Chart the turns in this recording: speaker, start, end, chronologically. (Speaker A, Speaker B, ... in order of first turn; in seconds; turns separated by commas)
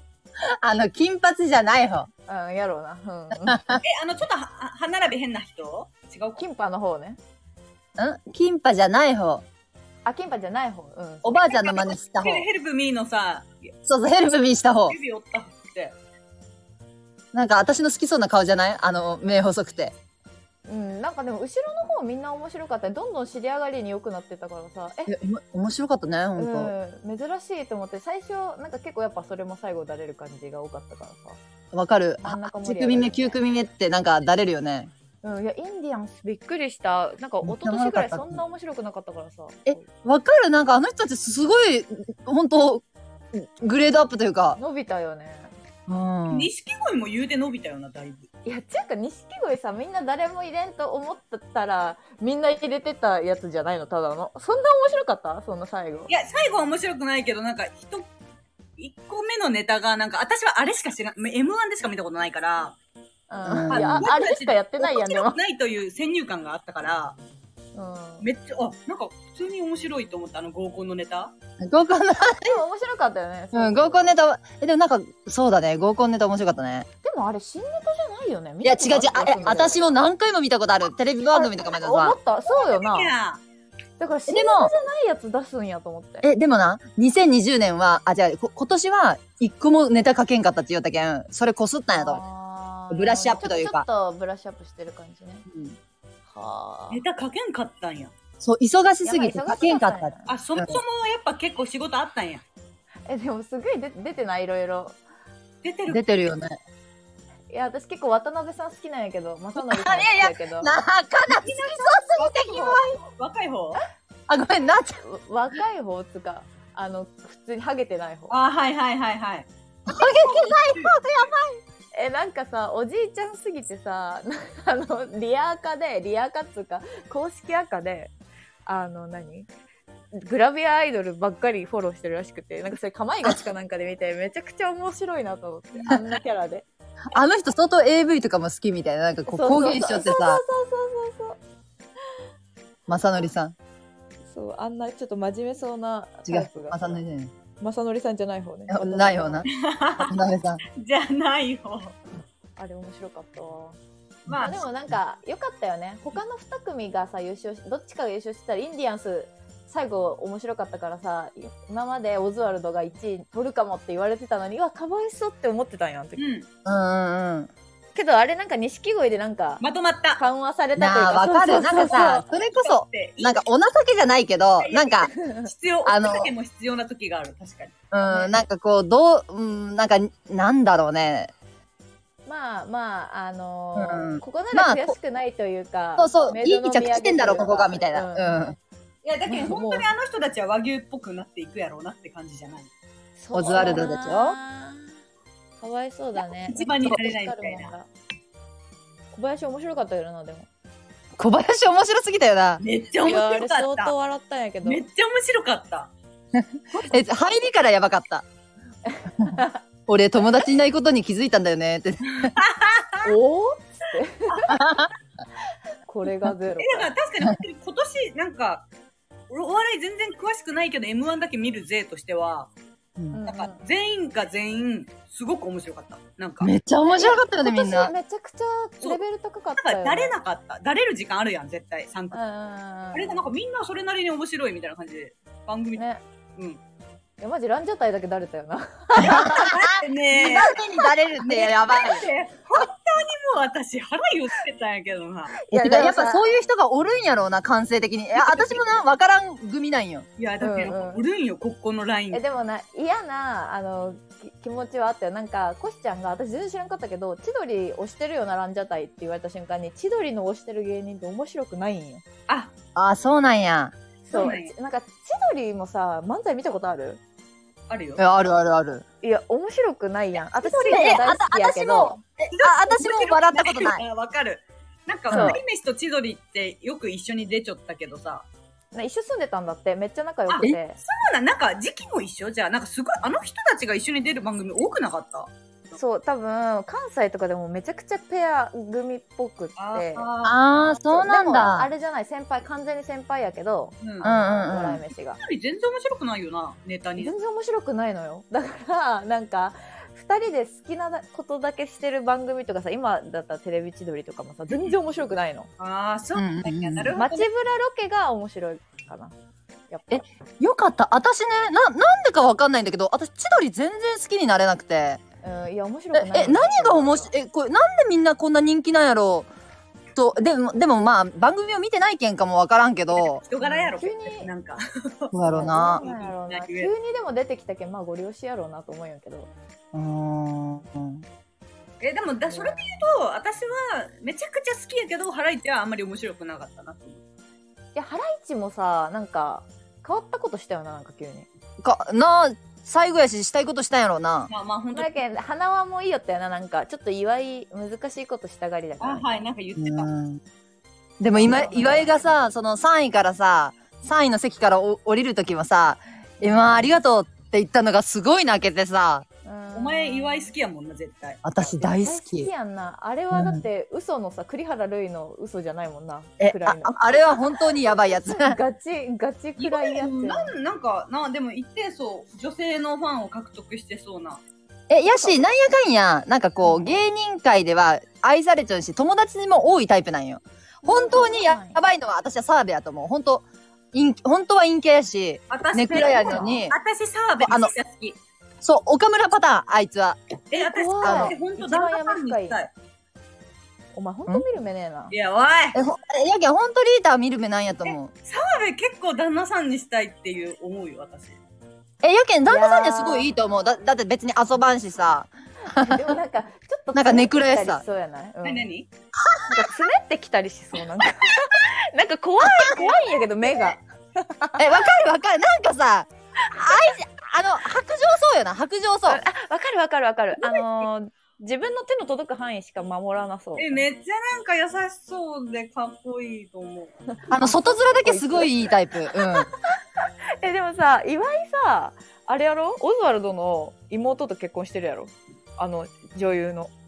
Speaker A: 0.5-2.1, Speaker B: 2.3-3.6, Speaker A: 3.4-3.8, Speaker C: 3.8-6.4, Speaker B: 6.4-7.2, Speaker A: 8.0-9.4, Speaker B: 10.1-11.4, Speaker A: 11.2-12.5, Speaker C: 11.5-13.7, Speaker A: 13.8-15.0, Speaker C: 14.9-15.9, Speaker A: 17.3-19.9, Speaker B: 20.7-25.1, Speaker A: 25.1-26.7, Speaker B: 26.4-31.4, Speaker A: 31.7-34.9, Speaker B: 32.2-33.4, Speaker B: 35.2-39.9, Speaker A: 37.4-38.4, Speaker A: 39.7-44.6, Speaker B: 44.6-45.5, Speaker A: 45.9-46.5, Speaker C: 46.3-48.3, Speaker B: 48.5-56.1, Speaker C: 56.1-58.1, Speaker C: 58.8-62.8, Speaker B: 63.3-65.4, Speaker A: 63.5-64.1, Speaker C: 63.7-67.2, Speaker B: 67.8-68.3, Speaker C: 68.2-71.3, Speaker A: 71.6-72.6, Speaker B: 72.4-74.1, Speaker A: 73.5-76.9, Speaker B: 77.0-79.8, Speaker A: 78.6-82.2, Speaker B: 81.3-83.1, Speaker C: 82.5-83.4, Speaker B: 84.0-86.3, Speaker A: 84.3-84.7, Speaker A: 86.2-92.2, Speaker B: 91.9-95.5, Speaker A: 92.9-93.9, Speaker C: 95.5-95.8, Speaker B: 96.3-97.0, Speaker C: 96.9-98.1, Speaker A: 98.4-100.8, Speaker B: 99.0-100.3, Speaker C: 100.3-102.4, Speaker B: 103.1-105.0, Speaker C: 105.6-106.1, Speaker A: 105.9-106.6, Speaker B: 107.5-110.7, Speaker A: 109.6-112.9, Speaker C: 111.4-113.8, Speaker A: 114.3-115.0, Speaker B: 115.0-118.3, Speaker C: 118.3-119.5, Speaker A: 119.9-121.6, Speaker C: 120.2-121.0, Speaker B: 121.9-128.1, Speaker B: 128.7-129.5, Speaker B: 130.1-136.7, Speaker A: 137.1-140.4, Speaker B: 139.3-141.4, Speaker A: 142.9-143.6, Speaker B: 144.3-147.0, Speaker A: 146.3-147.3, Speaker B: 147.6-149.5, Speaker A: 148.7-150.6, Speaker C: 149.5-150.2, Speaker C: 150.7-152.0, Speaker B: 152.6-153.8, Speaker C: 154.3-154.6, Speaker A: 154.3-154.7, Speaker B: 154.4-166.2, Speaker C: 166.2-166.5, Speaker A: 166.7-167.5, Speaker B: 167.9-169.7, Speaker C: 169.6-170.2, Speaker B: 170.2-172.2, Speaker A: 170.8-175.1, Speaker C: 172.3-173.4, Speaker C: 174.6-177.8, Speaker B: 175.1-175.5, Speaker A: 175.8-176.3, Speaker A: 177.9-181.3, Speaker B: 178.1-178.4, Speaker B: 182.3-188.5, Speaker A: 183.8-184.9, Speaker A: 186.0-188.6, Speaker C: 189.0-192.7, Speaker B: 189.3-189.9, Speaker B: 193.2-194.9, Speaker A: 193.3-194.4, Speaker C: 193.5-193.8, Speaker B: 195.6-197.9, Speaker C: 196.2-197.7, Speaker B: 199.1-200.5, Speaker A: 201.2-202.6, Speaker C: 202.6-203.9, Speaker B: 203.0-204.8, Speaker C: 204.7-205.9, Speaker A: 206.3-208.2, Speaker B: 208.9-209.6, Speaker A: 209.2-212.4, Speaker C: 212.2-213.1, Speaker B: 213.0-214.6, Speaker A: 214.5-214.9, Speaker B: 215.9-216.9, Speaker C: 216.6-218.7, Speaker C: 219.3-222.5, Speaker B: 223.1-223.6, Speaker C: 223.3-226.5, Speaker A: 226.4-227.9, Speaker B: 226.9-230.2, Speaker C: 229.6-232.2, Speaker B: 232.1-233.3, Speaker C: 232.9-235.8, Speaker B: 235.8-236.0, Speaker B: 237.2-239.6, Speaker A: 239.0-242.1, Speaker C: 239.2-240.6, Speaker C: 241.2-245.4, Speaker B: 245.4-246.2, Speaker A: 245.5-250.1, Speaker C: 248.2-248.7, Speaker C: 250.2-252.2, Speaker B: 250.4-251.0, Speaker B: 252.1-262.0, Speaker A: 262.8-263.7, Speaker B: 264.1-267.0, Speaker C: 264.1-264.5, Speaker C: 267.7-268.0, Speaker A: 268.0-268.8, Speaker B: 269.0-272.0, Speaker C: 270.4-271.0, Speaker A: 270.6-273.9, Speaker C: 272.3-278.3, Speaker A: 275.1-275.4, Speaker B: 275.1-275.4, Speaker B: 278.7-280.8, Speaker C: 280.3-285.3, Speaker B: 285.7-290.1, Speaker C: 289.6-290.4, Speaker A: 290.2-291.7, Speaker B: 290.9-295.2, Speaker C: 293.8-294.2, Speaker A: 294.0-294.8, Speaker C: 295.2-297.1, Speaker B: 297.0-305.5, Speaker C: 304.5-304.8, Speaker C: 305.6-307.3, Speaker A: 306.1-306.9, Speaker B: 307.0-309.1, Speaker B: 309.7-310.0, Speaker A: 309.9-315.0, Speaker B: 315.2-317.1, Speaker A: 315.9-319.3, Speaker A: 319.9-323.2, Speaker C: 322.9-326.7, Speaker B: 323.4-324.3, Speaker A: 325.1-325.8, Speaker B: 325.3-329.3, Speaker A: 329.7-331.1, Speaker C: 331.8-337.0, Speaker B: 332.3-332.7, Speaker B: 337.8-341.3, Speaker A: 341.6-344.3, Speaker C: 344.3-344.9, Speaker B: 344.8-349.2, Speaker C: 348.8-349.9, Speaker A: 349.6-350.2, Speaker A: 351.0-359.1, Speaker B: 351.1-351.9, Speaker B: 359.2-360.3, Speaker C: 359.5-361.2, Speaker A: 361.2-362.3, Speaker B: 361.6-367.0, Speaker A: 363.1-363.4, Speaker A: 366.2-368.4, Speaker B: 367.9-370.3, Speaker C: 369.4-374.2, Speaker A: 374.7-386.6, Speaker B: 374.9-375.2, Speaker B: 376.4-376.8, Speaker B: 380.6-381.6, Speaker C: 385.3-388.0, Speaker B: 385.9-386.4, Speaker A: 387.2-387.5, Speaker A: 388.4-390.0, Speaker C: 390.3-392.5, Speaker B: 390.4-392.4, Speaker A: 390.8-391.1, Speaker B: 393.7-394.9, Speaker C: 394.9-395.6, Speaker A: 395.5-397.9, Speaker C: 397.6-401.2, Speaker A: 401.8-406.0, Speaker B: 402.3-403.1, Speaker B: 405.4-408.5, Speaker A: 406.7-407.6, Speaker C: 408.2-408.7, Speaker A: 409.0-409.4, Speaker B: 409.3-414.5, Speaker A: 412.2-412.6, Speaker A: 414.4-419.0, Speaker B: 416.2-416.7, Speaker B: 418.9-423.6, Speaker C: 420.2-420.7, Speaker C: 423.4-426.7, Speaker B: 427.0-436.5, Speaker A: 427.1-429.3